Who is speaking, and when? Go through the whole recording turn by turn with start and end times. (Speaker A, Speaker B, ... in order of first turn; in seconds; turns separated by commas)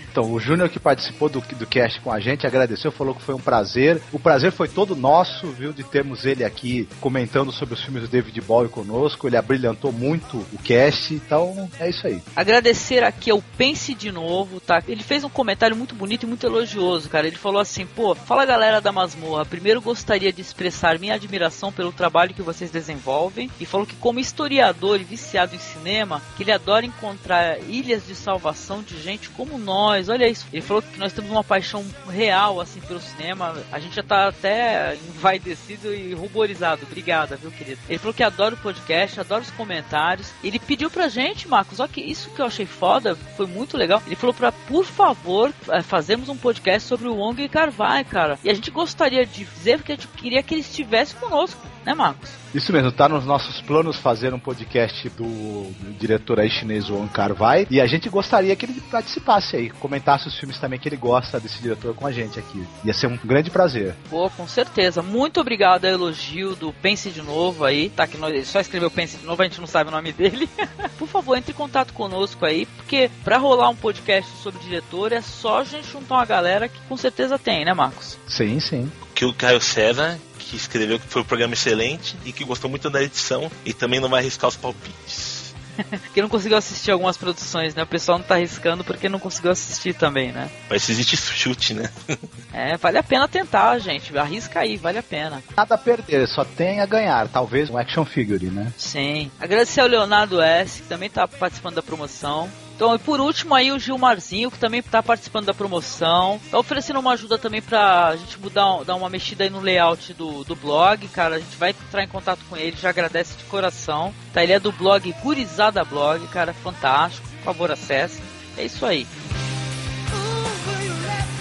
Speaker A: 0.1-12.2, Speaker B: 12.4-52.4, Speaker A: 52.5-64.0, Speaker B: 64.1-78.2, Speaker A: 78.3-78.9, Speaker C: 79.1-85.5, Speaker B: 85.9-90.5, Speaker C: 90.7-92.2, Speaker B: 92.5-95.5, Speaker A: 95.6-98.7, Speaker B: 98.8-119.1